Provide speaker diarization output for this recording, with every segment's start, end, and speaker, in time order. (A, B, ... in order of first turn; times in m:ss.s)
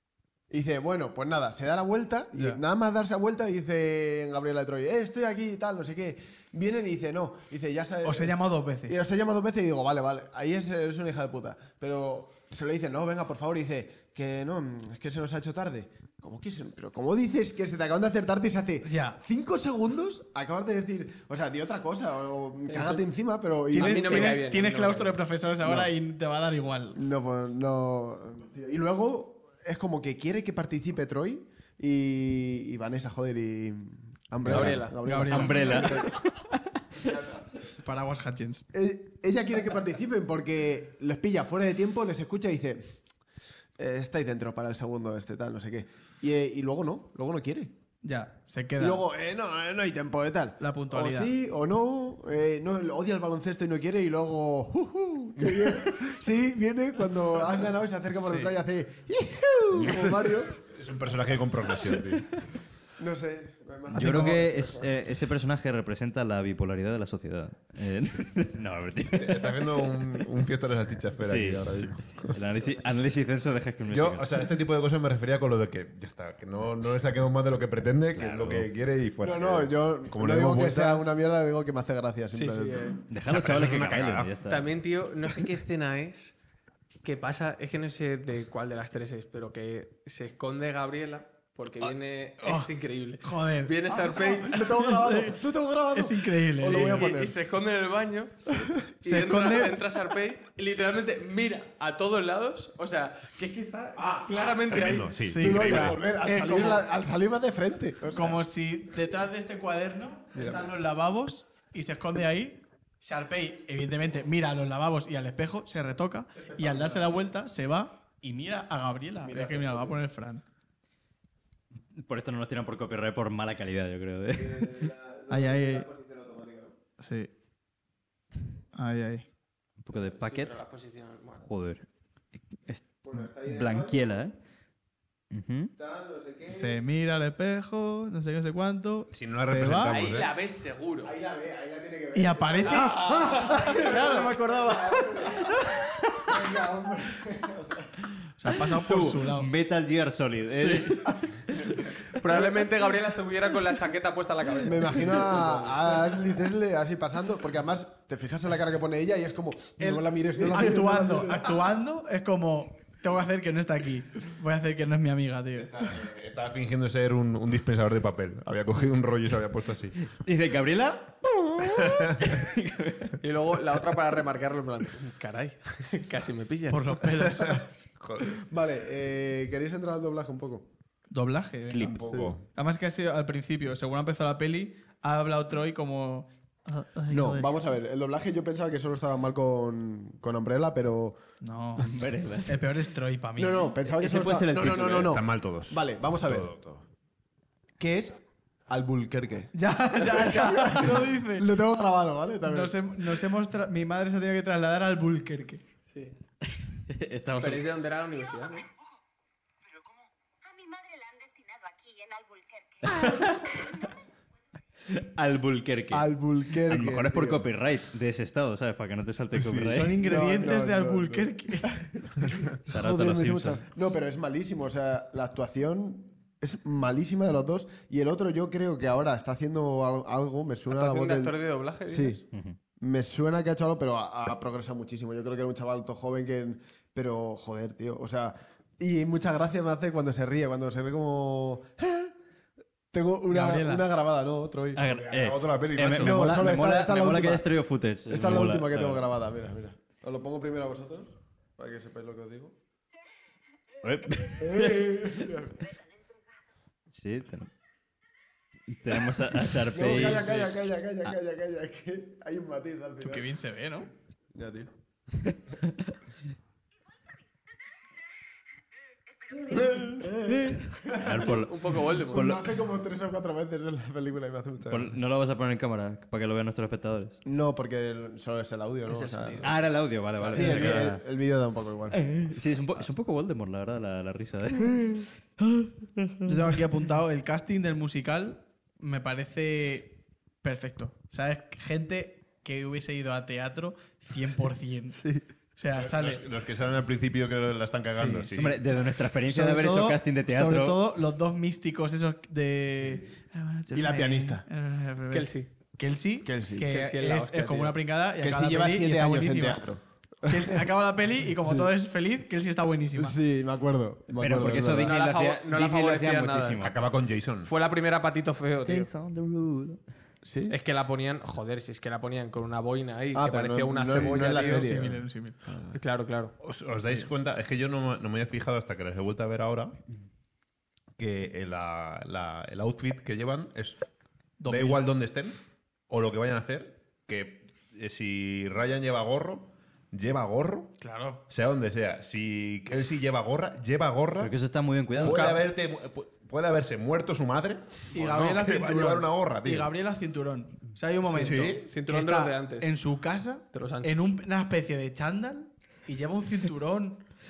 0:00.5-0:24.4 A
0:02.3-0:02.6 B
0:08.0-0:09.0 B
0:18.8-0:19.2 B
0:22.7-0:23.0 C
0:23.7-0:25.2 C
0:23.7-0:27.0 B
0:25.6-0:25.9 A
0:26.9-0:36.1 A
0:34.4-0:36.2 D
0:34.5-0:35.0 C
0:35.0-0:36.0 B
0:37.0-0:37.4 A
0:37.8-0:38.6 B
0:38.7-0:43.0 A
0:43.8-0:47.7 A
0:48.0-0:49.0 B
0:48.8-1:00.6 A
0:50.6-0:51.3 B
0:58.2-0:58.5 B
1:00.6-1:02.3 E
1:03.0-1:04.9 A
1:03.9-1:04.5 B
1:04.0-1:09.9 D
1:09.1-1:12.3 E
1:11.2-1:14.4 D
1:13.9-1:21.1 E
1:18.1-1:18.7 D
1:19.2-1:22.9 A
1:22.3-1:23.0 C
1:23.1-1:24.7 D
1:23.2-1:24.3 E
1:24.4-1:26.4 C
1:27.0-1:34.6 C
1:32.4-1:35.4 B
1:34.0-1:37.4 A
1:35.9-1:37.1 B
1:36.7-1:45.2 C
1:39.0-1:39.8 B
1:44.6-1:46.0 E
1:45.2-1:46.8 B
1:45.4-1:48.4 A
1:48.1-2:00.4 B
1:50.3-1:50.7 A
1:59.2-2:00.0 A
2:01.9-2:04.9 D
2:04.3-2:06.8 A
2:05.3-2:05.9 B
2:07.0-2:07.3 B
2:08.7-2:09.3 B
2:09.8-2:10.6 D
2:09.9-2:11.4 C
2:11.4-2:11.9 D
2:12.6-2:14.3 D
2:13.0-2:14.2 A
2:15.3-2:15.7 D
2:15.8-2:16.8 A
2:16.5-2:20.0 B
2:19.1-2:20.4 E
2:19.8-2:21.1 C
2:21.0-2:27.9 A
2:22.1-2:24.7 B
2:22.8-2:23.6 C
2:23.9-2:24.9 D
2:28.4-2:29.5 B
2:28.7-2:31.9 D
2:32.2-2:35.5 C
2:34.6-2:41.7 A
2:39.8-2:45.8 B
2:45.6-2:50.1 E
2:50.2-2:53.2 D
2:51.6-2:52.3 E
2:53.2-2:57.2 C
2:56.7-2:57.6 B
2:57.5-2:58.4 E
2:58.3-3:00.7 A
3:01.1-3:02.0 B
3:01.7-3:02.2 D
3:01.8-3:02.4 E
3:02.1-3:02.3 A
3:02.5-3:07.6 B
3:07.1-3:11.2 A
3:11.4-3:13.7 B
3:11.8-3:12.7 D
3:13.4-3:16.5 A
3:13.8-3:15.2 D
3:14.5-3:16.8 E
3:17.8-3:23.1 A
3:19.5-3:21.5 B
3:22.4-3:25.6 B
3:26.9-3:27.7 D
3:27.4-3:28.7 C
3:30.4-3:33.0 F
3:32.8-3:33.7 D
3:34.9-3:40.0 D
3:35.9-3:37.5 A
3:39.5-3:51.4 A
3:39.5-3:39.9 E
3:39.7-3:41.9 B
3:42.7-3:43.6 D
3:50.7-3:52.2 C
3:51.9-3:52.2 A
3:52.8-4:02.1 A
4:02.9-4:04.8 A
4:03.3-4:03.8 B
4:04.7-4:09.0 D
4:04.8-4:06.3 E
4:05.9-4:07.5 A
4:08.0-4:12.6 A
4:13.8-4:15.1 D
4:14.3-4:15.7 A
4:16.9-4:17.5 D
4:18.7-4:20.7 D
4:19.5-4:23.3 A
4:23.0-4:23.9 B
4:24.3-4:24.7 A
4:29.5-4:31.4 A
4:29.6-4:32.4 D
4:31.3-4:32.3 C
4:32.1-4:35.0 A
4:34.7-4:37.2 D
4:37.2-4:39.7 A
4:38.9-4:39.4 B
4:39.4-4:41.0 D
4:40.2-4:40.6 C
4:40.3-4:42.1 A
4:40.4-4:40.7 B
4:41.9-4:46.3 D
4:46.2-4:55.0 B
4:55.6-4:56.2 B
4:55.7-4:58.6 E
4:57.9-4:58.4 B
4:58.4-5:00.8 D
4:59.3-5:09.6 B
5:03.7-5:04.4 A
5:05.1-5:05.5 C
5:06.2-5:06.7 A
5:06.6-5:07.8 C
5:08.2-5:10.7 A
5:10.2-5:13.2 B
5:11.4-5:11.7 A
5:12.9-5:15.0 A
5:14.2-5:16.8 D
5:14.8-5:16.7 C
5:16.6-5:17.5 E
5:17.4-5:18.9 C
5:18.6-5:19.8 D
5:20.2-5:20.6 A
5:20.5-5:24.8 C
5:23.1-5:25.0 A
5:23.9-5:24.2 E
5:24.3-5:25.4 B
5:25.7-5:26.3 C
5:26.4-5:29.8 E
5:31.0-5:33.8 E
5:34.4-5:34.8 B
5:34.5-5:40.7 E
5:40.8-5:41.2 B
5:41.3-5:44.3 E
5:44.2-5:45.4 D
5:45.0-5:49.7 E
5:45.0-5:45.4 C
5:47.9-5:57.0 B
5:48.1-5:48.4 C
5:51.0-5:51.7 E
5:51.3-5:52.7 C
5:53.5-5:54.0 C